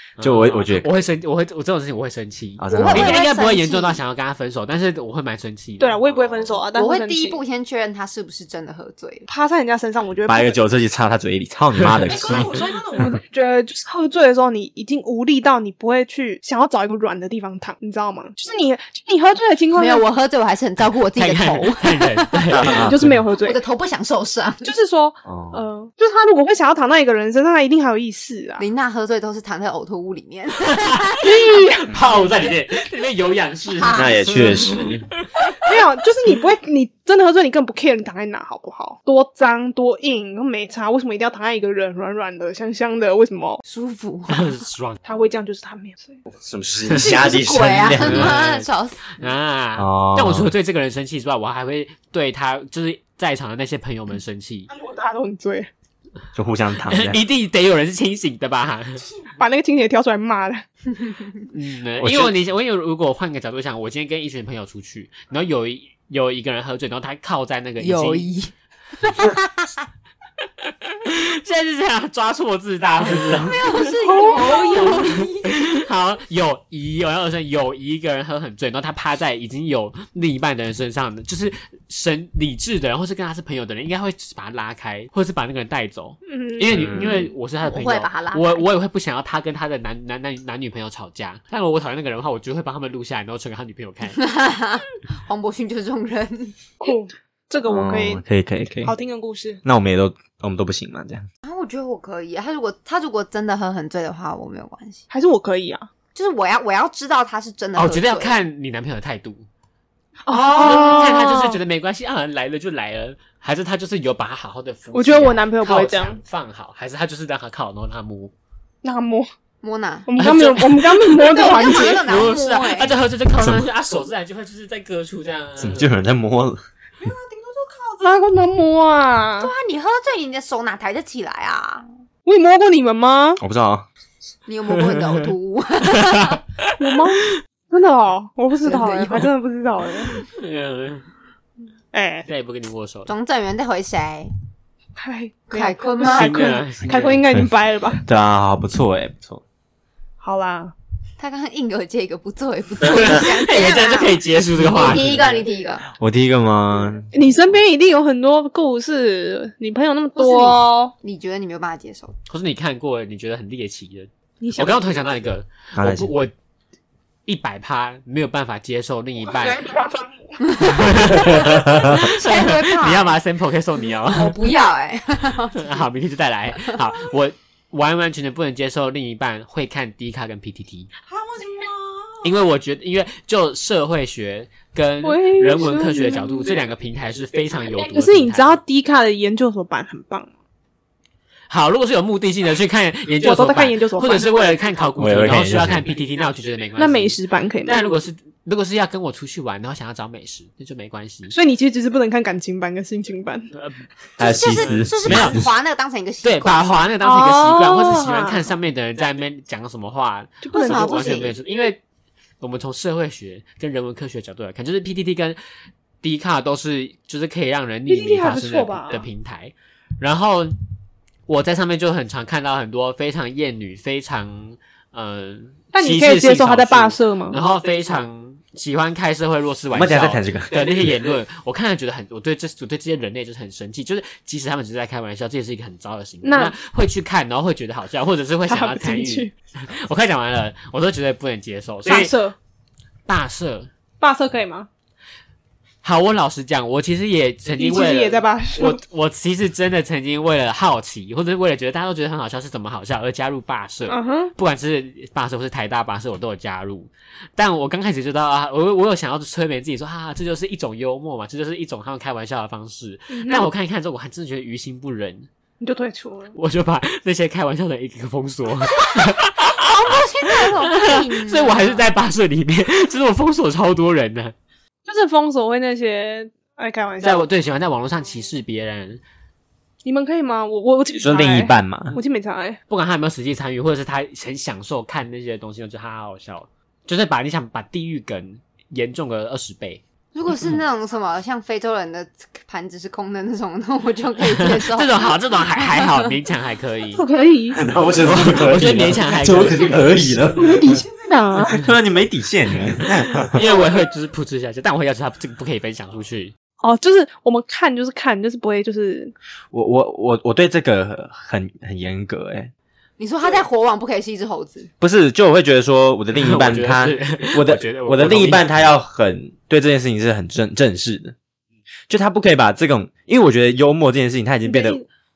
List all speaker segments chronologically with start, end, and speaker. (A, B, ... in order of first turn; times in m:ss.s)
0:00.2-0:06.6 A
0:00.2-0:00.9 B
0:02.6-0:03.2 B
0:02.7-0:04.0 C
0:05.8-0:07.4 D
0:06.7-0:09.3 C
0:09.3-0:10.6 D
0:10.3-0:12.5 B
0:11.8-0:12.6 A
0:12.1-0:20.0 D
0:19.8-0:22.7 C
0:21.2-0:23.2 A
0:22.5-0:23.0 B
0:22.8-0:23.6 D
0:23.4-0:24.7 C
0:24.6-0:28.6 D
0:25.2-0:25.6 B
0:28.6-0:31.4 C
0:30.7-0:31.2 A
0:31.2-0:32.0 D
0:31.9-0:35.4 A
0:33.8-0:34.3 C
0:34.0-0:35.1 B
0:35.6-0:43.6 D
0:43.6-0:44.6 C
0:44.3-0:45.0 A
0:45.0-0:46.2 D
0:46.3-0:48.4 B
0:46.9-0:47.2 A
0:46.9-0:49.2 C
0:47.9-0:54.7 A
0:49.8-0:50.5 B
0:54.7-0:55.7 D
0:56.4-0:57.2 B
0:56.9-0:59.1 A
0:59.4-1:00.6 D
1:01.5-1:08.3 A
1:02.0-1:02.3 B
1:07.8-1:08.5 C
1:09.0-1:09.7 C
1:10.6-1:13.7 A
1:13.1-1:13.5 B
1:13.5-1:15.5 C
1:14.0-1:15.1 D
1:14.4-1:34.2 A
1:26.3-1:26.9 D
1:26.7-1:27.2 B
1:27.6-1:28.7 C
1:34.2-1:36.6 C
1:36.8-1:38.2 D
1:37.7-1:38.9 B
1:38.8-1:39.6 D
1:39.6-1:41.3 B
1:41.4-1:45.0 C
1:45.1-1:45.9 D
1:46.2-1:48.4 C
1:47.8-1:49.5 A
1:50.3-1:51.6 D
1:50.5-1:58.3 A
1:54.9-1:56.2 D
1:58.8-1:59.3 D
1:59.6-2:00.1 C
2:00.1-2:02.1 D
2:00.2-2:05.9 A
2:01.2-2:03.0 C
2:03.4-2:03.7 B
2:05.6-2:06.6 B
2:07.1-2:09.5 D
2:09.4-2:11.9 C
2:12.2-2:13.4 D
2:13.4-2:13.9 B
2:14.5-2:16.4 C
2:14.7-2:15.3 A
2:16.1-2:17.3 A
2:16.8-2:20.2 D
2:18.6-2:19.3 C
2:20.2-2:21.1 A
2:21.9-2:22.3 D
2:22.3-2:23.1 A
2:23.1-2:24.3 C
2:25.0-2:28.0 D
2:25.5-2:26.6 C
2:26.0-2:27.2 A
2:28.0-2:29.4 B
2:30.2-2:30.7 D
2:31.2-2:35.8 C
2:32.8-2:35.4 A
2:35.9-2:37.1 B
2:37.1-2:40.9 D
2:40.2-2:42.1 C
2:42.3-2:46.3 A
2:44.4-2:44.8 D
2:45.8-2:46.1 B
2:47.3-2:49.7 A
2:49.4-2:50.4 D
2:50.4-2:53.2 C
2:50.6-2:54.4 A
2:51.3-2:51.9 B
2:54.1-2:55.8 C
2:55.6-3:00.9 A
3:01.1-3:02.2 D
3:02.2-3:08.6 A
3:05.0-3:06.4 D
3:07.8-3:10.3 D
3:11.5-3:21.3 A
3:13.2-3:14.3 D
3:15.0-3:15.9 B
3:16.8-3:17.8 D
3:21.3-3:23.5 D
3:23.5-3:23.8 A
3:24.2-3:25.5 B
3:24.2-3:26.9 C
3:24.4-3:25.4 A
3:26.2-3:31.8 A
3:27.0-3:28.4 D
3:30.4-3:31.2 D
3:30.5-3:31.4 C
3:32.4-3:35.4 A
3:36.0-3:40.6 A
3:37.9-3:39.1 D
3:41.3-4:02.2 A
3:45.7-3:47.4 D
3:49.7-3:50.9 B
3:56.2-3:56.6 D
3:58.5-3:59.3 D
4:01.8-4:02.4 D
4:03.1-4:03.7 A
4:04.0-4:04.7 D
4:05.8-4:25.3 A
4:07.6-4:08.8 D
4:13.9-4:14.3 D
4:23.1-4:23.5 D
4:25.6-4:26.3 D
4:26.3-4:34.3 A
4:28.8-4:31.9 C
4:34.9-4:37.3 D
4:37.0-4:39.0 A
4:39.8-4:42.6 D
4:41.0-4:42.0 B
4:42.7-4:49.8 A
4:50.1-4:55.2 C
4:54.2-4:57.0 A
4:57.0-4:57.6 D
4:57.5-5:00.8 B
4:58.0-5:00.2 A
5:00.4-5:01.6 D
5:01.5-5:03.4 B
5:03.2-5:06.3 A
5:06.6-5:09.1 D
5:09.5-5:12.5 B
5:13.0-5:14.7 C
5:14.8-5:21.2 B
5:16.1-5:18.5 A
5:21.9-5:24.8 B
5:24.5-5:24.9 D